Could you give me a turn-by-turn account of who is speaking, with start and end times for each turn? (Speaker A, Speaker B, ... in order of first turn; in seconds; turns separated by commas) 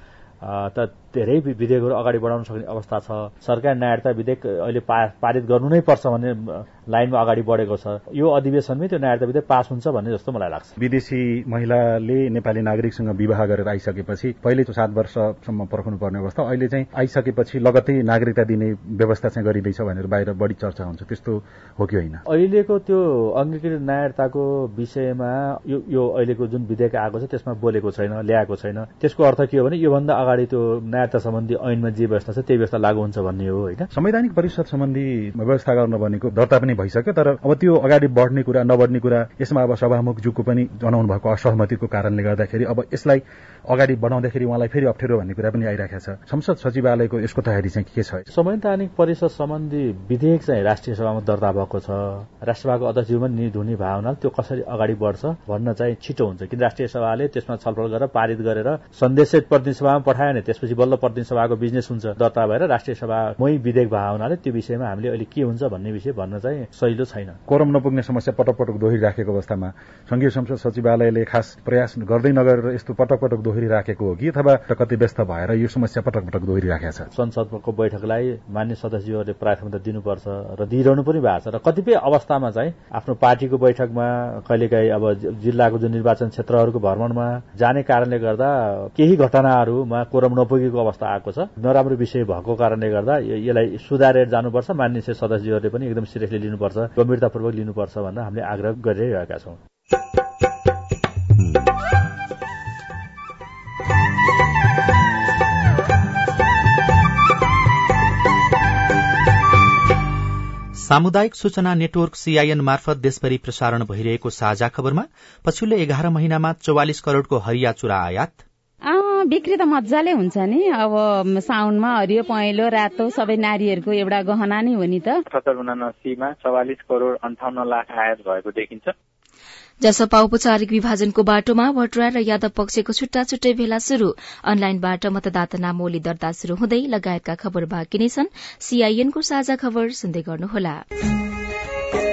Speaker A: 0.4-10.7, Speaker B: 10.8-22.2, Speaker A: 22.3-33.9, Speaker B: 33.9-48.3, Speaker A: 48.3-67.4, Speaker B: 67.5-77.1, Speaker A: 77.1-99.6, Speaker C: 110.8-118.4, Speaker D: 118.8-125.2, Speaker E: 125.3-128.9, Speaker F: 129.8-140.8